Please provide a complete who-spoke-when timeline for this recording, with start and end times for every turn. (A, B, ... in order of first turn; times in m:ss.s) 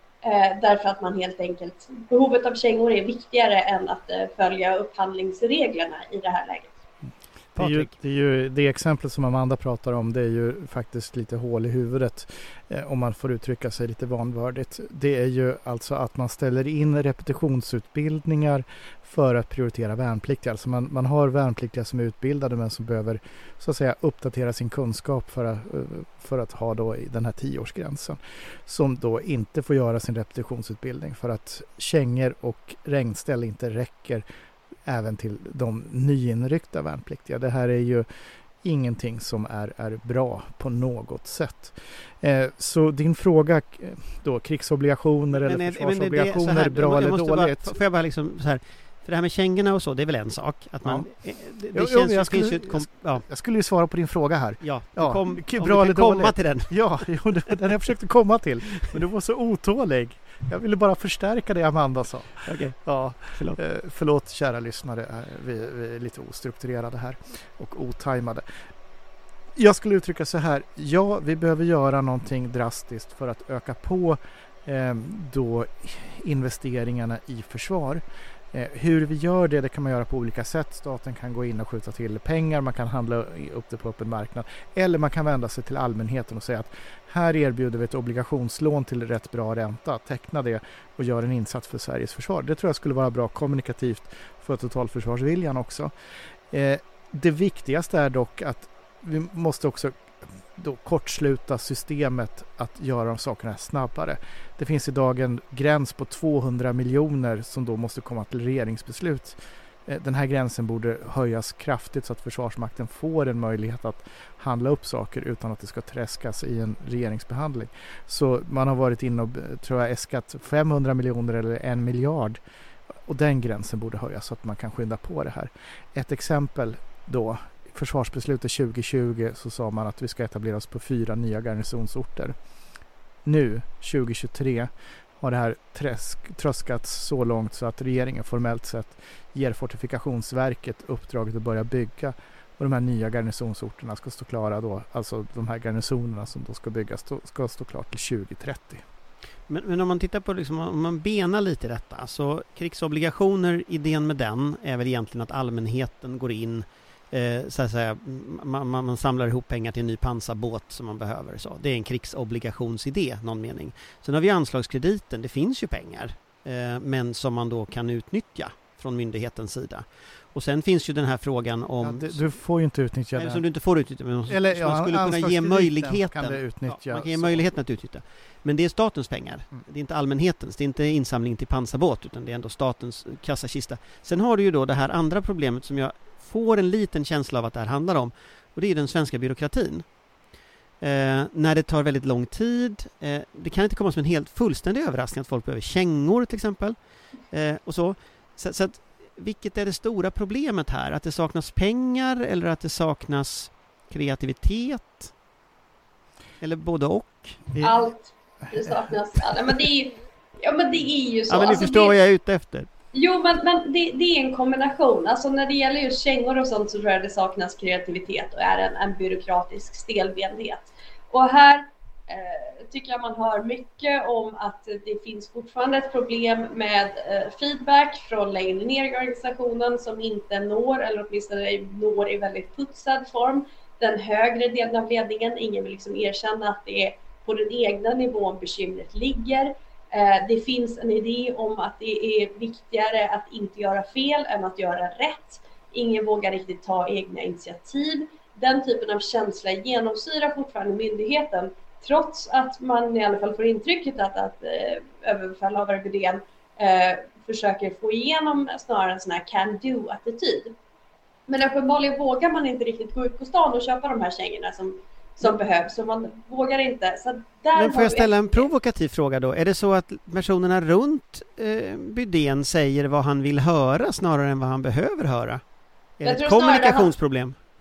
0:00.2-0:06.8 A
0:07.6-0:34.2 B
0:07.6-0:07.9 C
0:34.8-0:38.1 B
0:38.6-0:47.8 B
0:45.4-0:53.2 C
0:50.8-0:51.1 B
0:51.7-1:08.4 B
0:54.6-0:56.8 C
1:02.5-1:03.6 C
1:09.6-1:35.9 B
1:36.5-1:40.0 B
1:40.6-2:02.4 B
2:02.9-2:12.4 B
2:13.2-2:28.8 B
2:29.5-2:52.3 C
2:51.8-2:53.4 B
2:53.2-3:09.9 C
2:54.3-2:57.5 B
3:10.8-3:16.8 C
3:17.3-3:25.1 C
3:26.4-3:27.6 C
3:27.6-3:32.0 A
3:31.3-3:32.7 C
3:32.9-4:20.6 A
4:21.3-4:28.5 A
4:27.6-4:35.4 C
4:36.0-4:37.4 C
4:36.0-4:36.9 A